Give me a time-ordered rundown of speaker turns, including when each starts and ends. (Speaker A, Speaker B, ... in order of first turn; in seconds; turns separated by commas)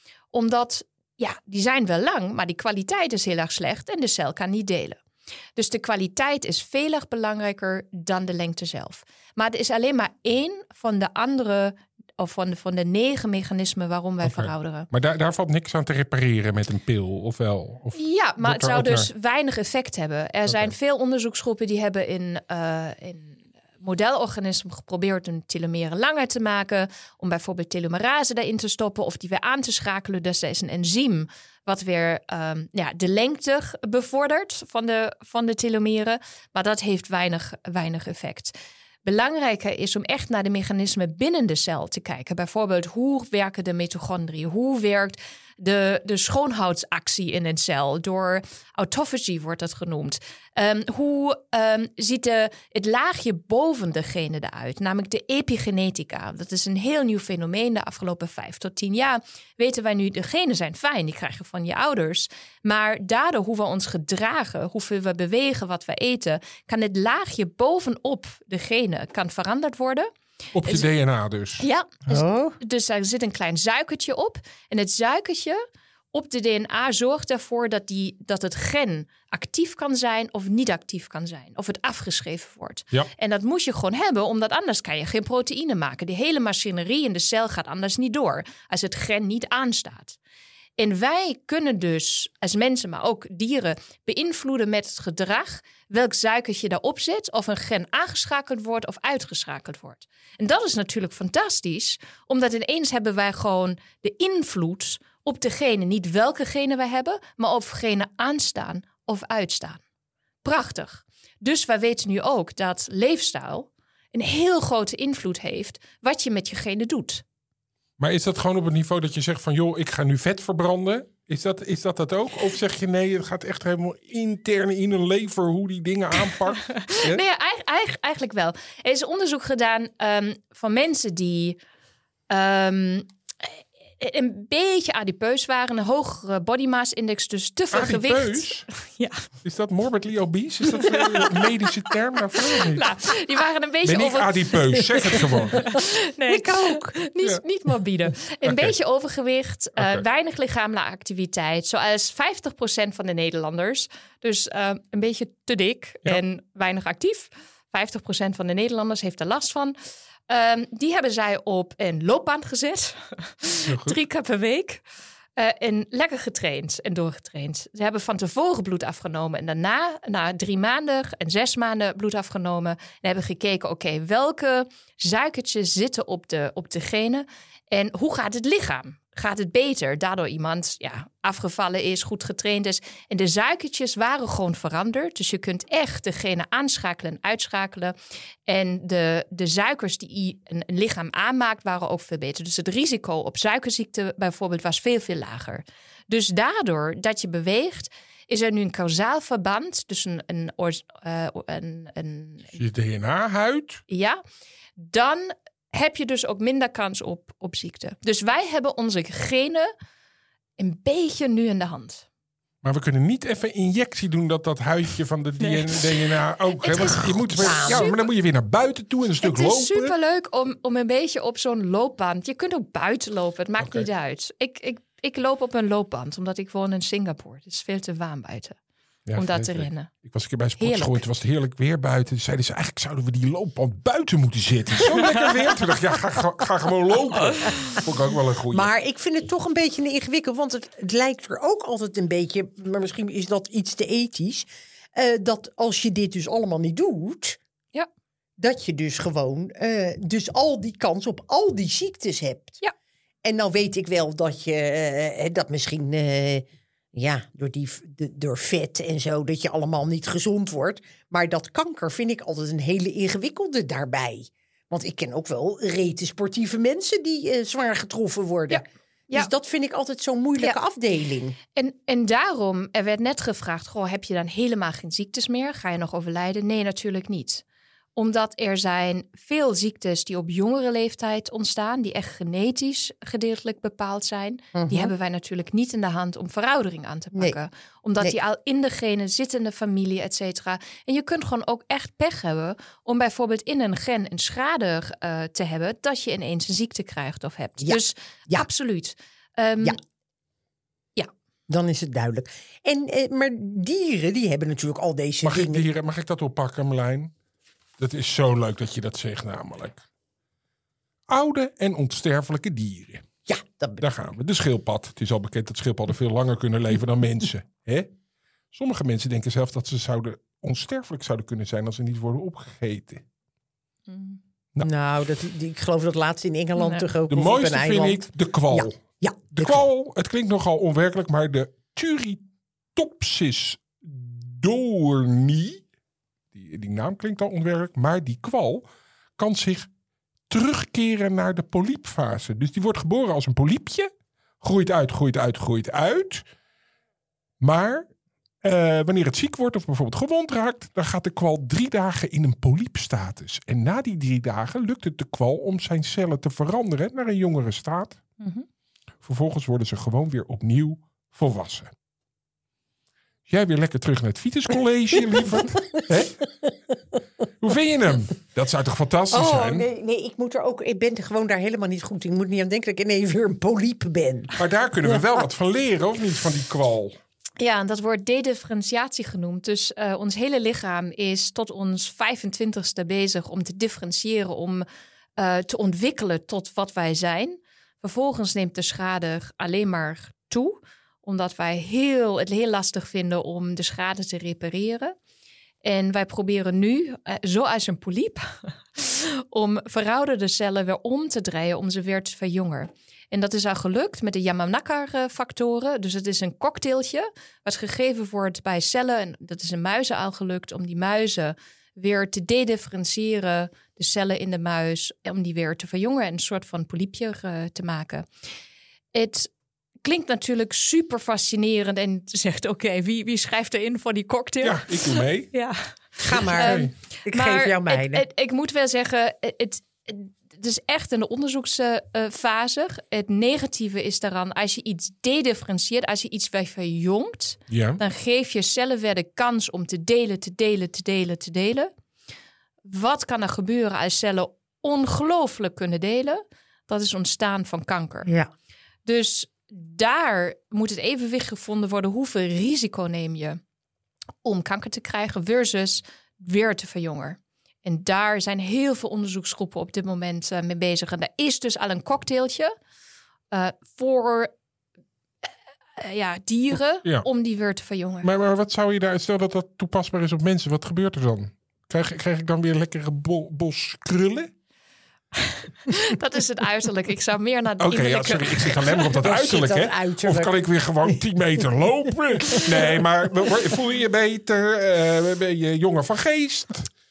Speaker A: 0.3-5.0, Speaker A: 5.5-14.9, Speaker B: 14.2-19.1, Speaker A: 17.9-70.1, Speaker B: 20.5-20.7, Speaker B: 70.5-71.7, Speaker A: 71.6-75.6, Speaker C: 72.1-72.6, Speaker A: 76.1-90.2, Speaker A: 90.8-109.8, Speaker A: 110.4-117.2, Speaker B: 118.0-127.2, Speaker A: 126.6-131.6, Speaker A: 132.3-139.3, Speaker B: 137.7-138.7, Speaker B: 139.4-142.9, Speaker A: 141.2-141.5, Speaker A: 142.4-159.8, Speaker B: 143.8-145.6, Speaker C: 145.7-146.9, Speaker B: 148.4-148.7, Speaker B: 149.8-150.0, Speaker A: 160.3-164.8, Speaker B: 163.7-164.0, Speaker A: 165.4-187.9, Speaker A: 188.5-202.5, Speaker B: 202.5-203.8, Speaker A: 203.9-204.2, Speaker A: 204.8-209.7, Speaker A: 210.6-212.1, Speaker B: 212.6-219.9, Speaker A: 215.4-217.9, Speaker C: 217.4-217.9, Speaker A: 219.2-228.6, Speaker B: 223.6-223.9, Speaker B: 229.1-238.7, Speaker A: 229.2-229.9, Speaker A: 230.6-231.0, Speaker C: 238.5-247.4, Speaker C: 248.4-252.6, Speaker C: 253.2-271.4, Speaker A: 268.5-269.3, Speaker A: 271.5-277.4, Speaker A: 277.9-299.8, Speaker C: 284.5-284.9, Speaker C: 297.6-298.5, Speaker C: 301.5-305.6, Speaker B: 305.2-307.1, Speaker B: 307.8-309.8, Speaker B: 311.1-313.1, Speaker C: 313.2-313.8, Speaker B: 313.8-317.9, Speaker B: 318.5-323.0, Speaker A: 323.9-324.2, Speaker C: 324.6-329.7, Speaker A: 326.6-326.9, Speaker B: 327.1-328.8, Speaker B: 329.4-332.2, Speaker B: 332.8-335.6, Speaker B: 336.3-338.6, Speaker B: 339.2-339.7, Speaker B: 340.3-346.2, Speaker B: 347.4-347.9, Speaker B: 348.4-358.0, Speaker A: 358.2-358.4, Speaker B: 359.0-361.7, Speaker B: 363.3-366.2, Speaker C: 365.1-365.8, Speaker B: 367.4-369.6, Speaker C: 369.1-375.0, Speaker B: 374.4-376.9, Speaker A: 377.4-384.6, Speaker A: 385.2-394.9, Speaker A: 395.6-418.1, Speaker A: 418.9-419.3, Speaker A: 419.8-441.7, Speaker B: 424.4-425.3, Speaker C: 426.0-428.0, Speaker B: 426.2-426.7, Speaker B: 437.5-437.8, Speaker A: 442.6-448.1, Speaker C: 448.0-448.3, Speaker A: 448.8-453.4, Speaker A: 454.2-462.5, Speaker A: 463.3-464.3, Speaker A: 465.8-468.1, Speaker B: 468.0-474.3, Speaker A: 475.2-478.8, Speaker B: 477.6-486.7, Speaker C: 479.0-480.3